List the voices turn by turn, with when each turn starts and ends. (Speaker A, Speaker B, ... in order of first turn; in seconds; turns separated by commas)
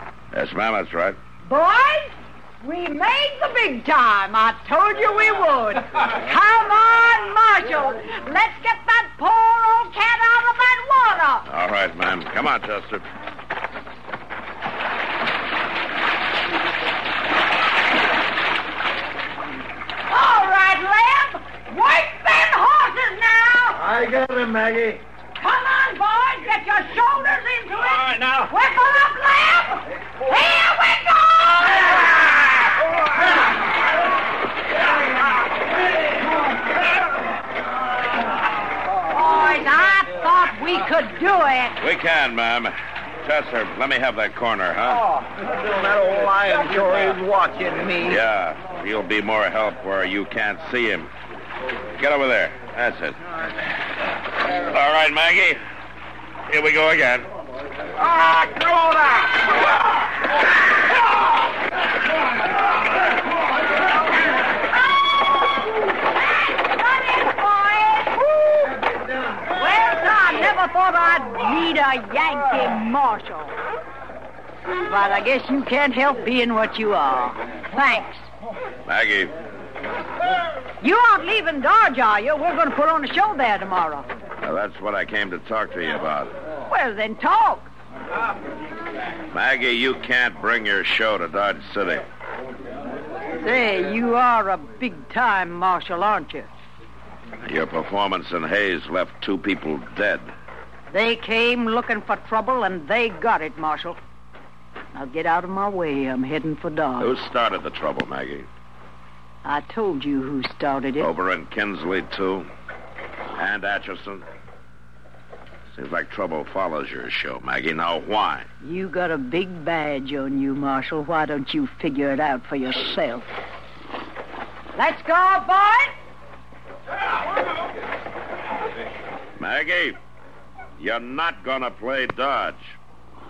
Speaker A: 0.3-1.2, Speaker B: 1.5-11.5, Speaker A: 11.5-13.1, Speaker B: 20.1-23.8, Speaker C: 23.8-25.0, Speaker B: 25.4-32.1, Speaker C: 28.0-28.5, Speaker B: 39.1-41.8, Speaker A: 41.8-45.1, Speaker C: 44.9-48.2, Speaker A: 48.0-51.1, Speaker A: 52.0-53.2, Speaker A: 54.4-55.6, Speaker A: 56.5-57.3, Speaker C: 58.3-58.5, Speaker B: 66.8-68.1, Speaker B: 69.5-73.5, Speaker B: 74.9-78.3, Speaker A: 78.8-79.3, Speaker B: 80.8-84.1, Speaker A: 84.4-86.3, Speaker B: 86.7-87.7, Speaker A: 89.3-92.0, Speaker B: 93.4-96.5, Speaker A: 97.4-100.3, Speaker B: 100.9-104.0, Speaker B: 104.9-107.1, Speaker A: 107.0-108.5, Speaker B: 109.4-111.1, Speaker A: 111.0-112.5, Speaker A: 113.3-114.2, Speaker A: 115.8-118.5, Speaker B: 118.6-123.3, Speaker B: 124.8-125.9, Speaker A: 129.4-130.0, Speaker A: 130.8-132.8